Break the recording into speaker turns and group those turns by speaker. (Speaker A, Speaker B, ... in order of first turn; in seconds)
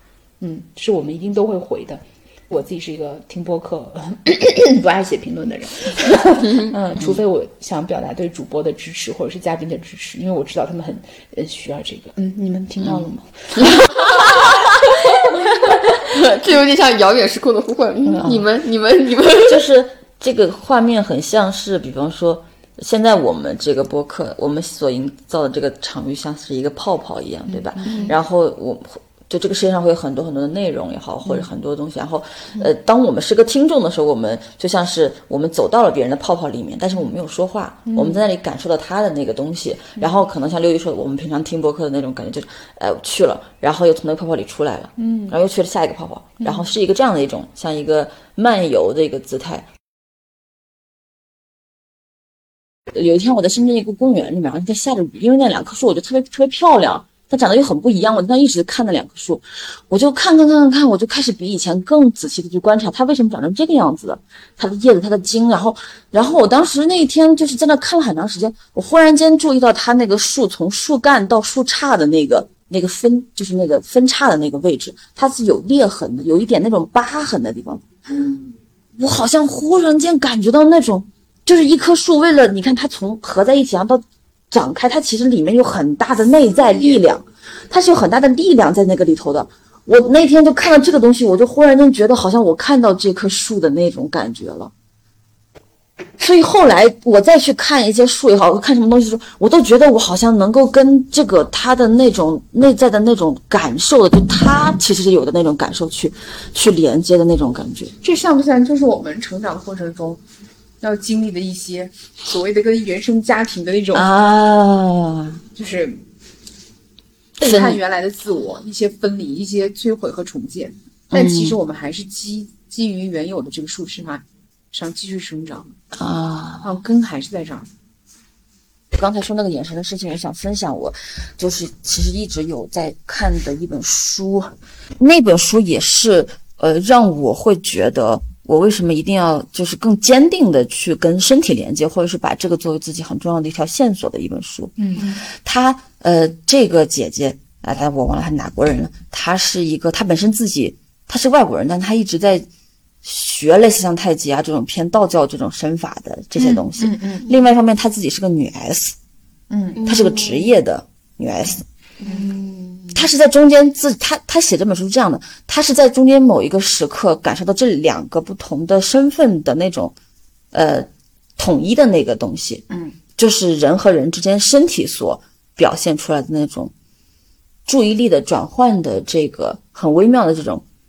Speaker A: 0.4-13.8, 27.5-28.1, 37.9-38.2, 45.0-45.4, 46.4-46.7, 108.0-110.2, 110.8-114.1, 115.5-116.0, 117.4-125.7, 126.6-127.7, 144.8-145.1, 156.4-157.3, 159.5-159.8, 162.0-162.3, 172.7-172.9
Speaker B: 12.8-13.1, 19.4-49.7, 52.9-77.8, 79.0-94.7, 96.2-108.0, 113.9-115.4, 117.4-117.8, 121.1-121.6, 125.9-126.7, 128.9-144.8, 145.3-152.5, 153.0-159.0, 159.8-161.7, 162.9-169.9, 170.5-172.7, 173.2-176.7, 177.7-180.6
Speaker C: 13.7-19.6, 27.9-28.1, 159.8-160.6, 162.0-162.9